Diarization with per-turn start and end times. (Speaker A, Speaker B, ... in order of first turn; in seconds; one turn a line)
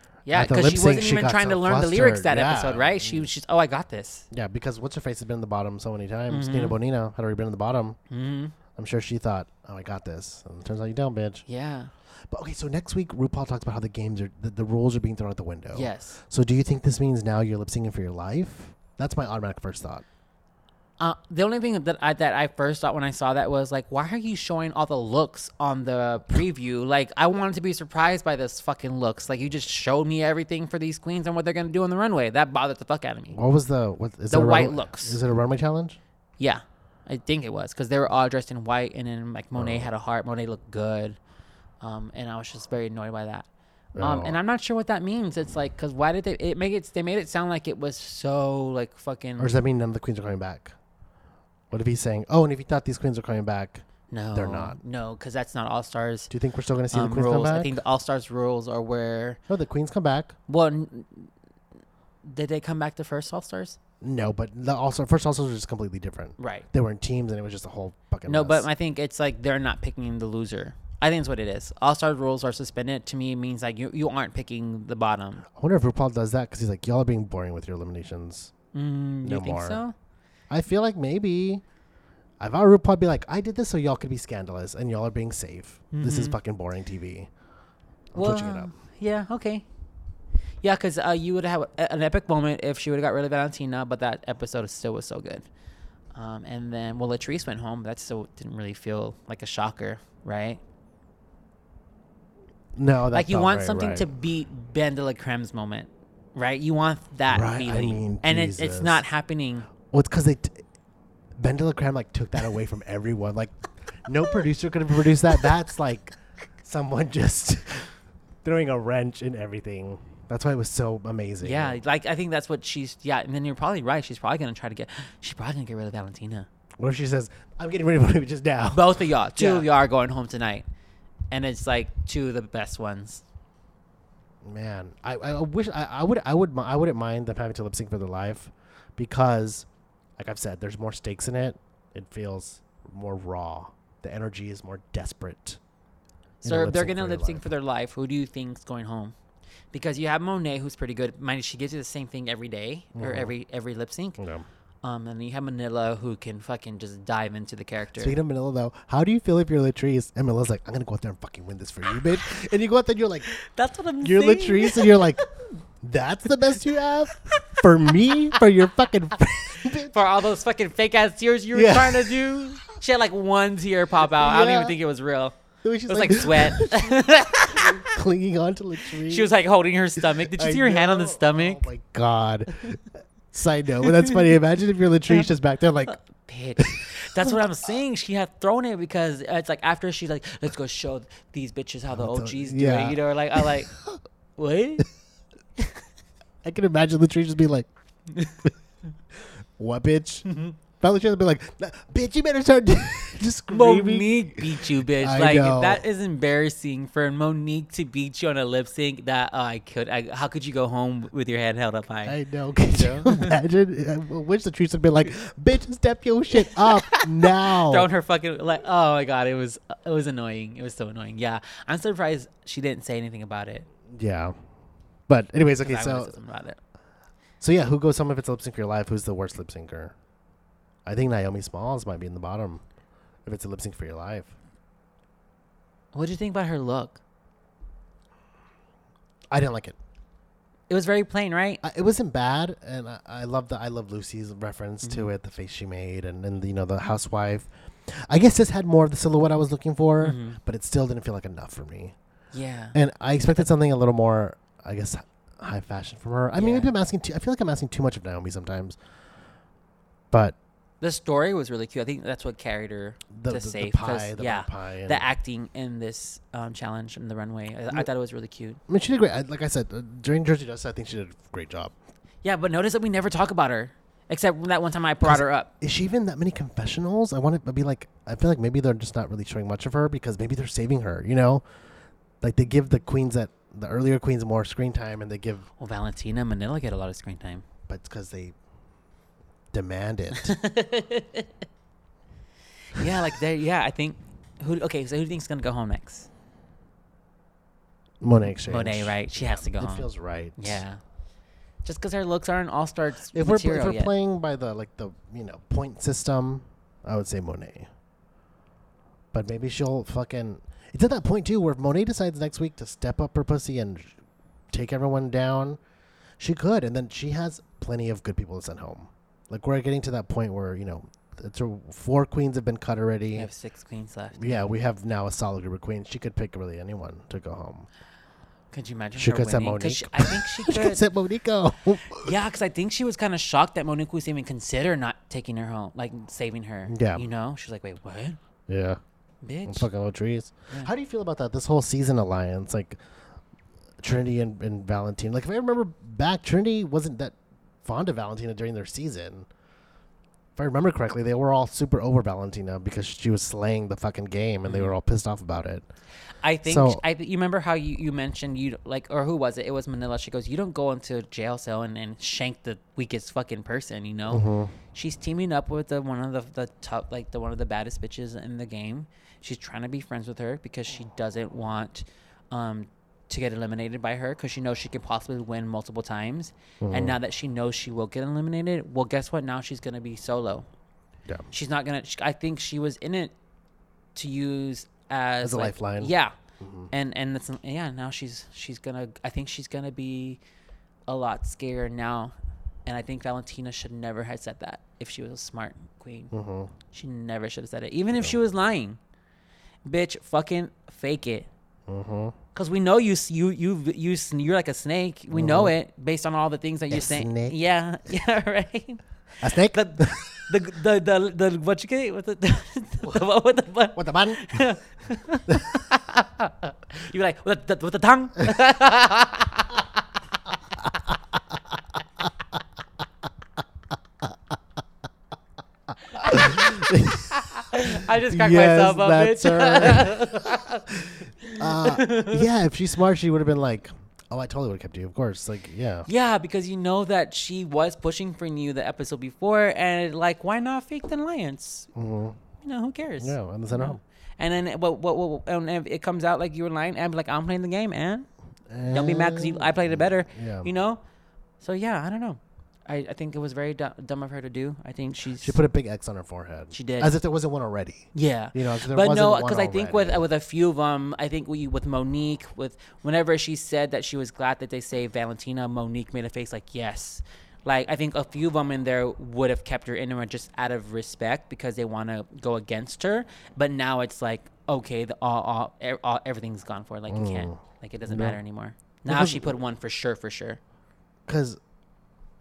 Speaker A: 0.2-4.2
Speaker B: 0.3-3.3
Speaker B: 4.3-8.0
Speaker A: 6.3-6.8
Speaker A: 8.1-8.5
Speaker B: 8.8-11.4
Speaker A: 11.5-11.9
Speaker B: 12.3-20.0
Speaker A: 15.7-16.2
Speaker A: 21.0-33.4
Speaker B: 33.3-36.0
Speaker A: 34.3-35.2
Speaker A: 36.4-41.2
Speaker B: 39.5-39.9
Speaker A: 41.8-43.5
Speaker B: 44.0-44.4
Speaker A: 44.0-49.5
Speaker B: 49.4-50.8
Speaker B: 51.7-54.8
Speaker A: 54.1-56.3
Speaker B: 56.3-57.7
Speaker A: 56.9-59.4
Speaker B: 59.5-60.4
Speaker A: 60.5-61.3
Speaker A: 62.2-63.8
Speaker B: 64.0-68.7
Speaker A: 66.4-66.7
Speaker A: 68.3-75.4
Speaker B: 75.5-78.5
Speaker A: 78.7-79.9
Speaker B: 79.2-79.8
Speaker B: 80.5-81.6
Speaker B: 82.4-87.3
Speaker A: 85.9-86.4
Speaker B: 88.1-88.7
Speaker A: 88.1-89.6
Speaker A: 90.6-95.5
Speaker A: 96.1-100.6
Speaker B: 102.8-104.1
Speaker A: 103.1-109.7
Speaker B: 107.3-109.0
Speaker B: 109.9-110.6
Speaker B: 111.3-121.8
Speaker A: 121.4-126.5
Speaker B: 126.8-129.7
Speaker A: 128.7-130.7
Speaker A: 131.3-133.2
Speaker B: 134.4-139.7
Speaker B: 140.2-145.6
Speaker B: 146.4-147.5
Speaker A: 146.4-149.1
Speaker A: 149.7-154.2
Speaker B: 152.9-153.3
Speaker B: 154.2-154.4
Speaker A: 154.8-158.2
Speaker B: 158.0-163.3
Speaker A: 163.3-165.3
Speaker B: 164.0-165.2
Speaker B: 165.8-170.0
Speaker A: 167.3-168.3
Speaker A: 169.6-175.3
Speaker B: 171.5-172.5
Speaker B: 174.0-174.8
Speaker B: 175.6-177.0
Speaker A: 175.9-178.0
Speaker B: 177.5-179.3
Speaker A: 179.0-181.6
Speaker B: 179.9-186.0
Speaker A: 183.8-184.3
Speaker A: 185.9-193.7
Speaker B: 186.6-187.4
Speaker B: 191.9-194.0
Speaker A: 194.4-194.9
Speaker B: 196.4-197.7
Speaker A: 198.1-198.5
Speaker B: 199.6-200.3
Speaker A: 200.3-200.6
Speaker B: 200.8-205.8
Speaker A: 203.5-212.2
Speaker B: 212.1-217.9
Speaker A: 212.7-213.3
Speaker A: 216.5-223.7
Speaker B: 223.9-224.3
Speaker B: 225.1-226.2
Speaker A: 225.6-226.6
Speaker B: 227.4-229.9
Speaker B: 230.8-232.6
Speaker B: 233.2-234.3
Speaker A: 235.9-237.0
Speaker B: 239.3-239.8
Speaker A: 240.7-241.6
Speaker B: 241.6-251.9
Speaker A: 244.8-245.1
Speaker A: 250.0-250.4
Speaker A: 252.3-252.8
Speaker B: 252.7-258.8
Speaker A: 256.3-256.7
Speaker B: 260.1-260.4
Speaker A: 260.8-268.6
Speaker B: 263.1-265.0
Speaker B: 268.7-271.7
Speaker A: 272.2-275.5
Speaker B: 275.0-281.4
Speaker B: 282.2-285.5
Speaker A: 285.6-287.4
Speaker B: 287.7-288.3
Speaker B: 289.5-290.3
Speaker A: 290.1-291.3
Speaker A: 292.7-296.1
Speaker B: 298.0-300.6
Speaker A: 298.5-300.8
Speaker A: 301.6-303.9
Speaker B: 303.1-307.7
Speaker B: 309.1-313.9
Speaker B: 314.5-315.6
Speaker B: 316.2-323.3
Speaker A: 323.1-324.5
Speaker B: 324.1-327.7
Speaker A: 328.5-330.8
Speaker B: 329.0-332.1
Speaker A: 331.9-338.2
Speaker B: 336.7-337.0
Speaker B: 338.5-338.8
Speaker A: 339.2-339.7
Speaker B: 339.4-342.8
Speaker B: 343.8-349.3
Speaker B: 350.4-355.6
Speaker A: 354.4-354.8
Speaker A: 356.2-380.5
Speaker B: 356.4-356.8
Speaker B: 364.1-364.5
Speaker B: 376.6-376.9
Speaker A: 381.3-383.1
Speaker A: 383.9-386.1
Speaker B: 385.2-386.7
Speaker A: 386.7-390.2
Speaker A: 390.9-392.1
Speaker A: 392.6-396.1
Speaker B: 396.1-396.5
Speaker A: 396.7-398.8
Speaker A: 399.6-401.3
Speaker B: 401.7-402.1
Speaker A: 402.3-419.8
Speaker B: 405.1-405.5
Speaker B: 406.7-407.4
Speaker B: 409.2-410.2
Speaker B: 413.7-414.4
Speaker B: 415.3-415.6
Speaker A: 425.9-426.5
Speaker B: 425.9-435.9
Speaker A: 427.1-432.2
Speaker A: 435.9-441.7
Speaker B: 441.7-442.2
Speaker A: 442.4-448.1
Speaker B: 443.0-443.8
Speaker B: 448.5-450.5
Speaker A: 448.7-450.8
Speaker A: 451.4-455.4
Speaker B: 455.2-460.0
Speaker A: 456.5-456.9
Speaker A: 457.9-480.4
Speaker B: 476.9-478.2
Speaker B: 478.9-479.4
Speaker B: 481.1-481.4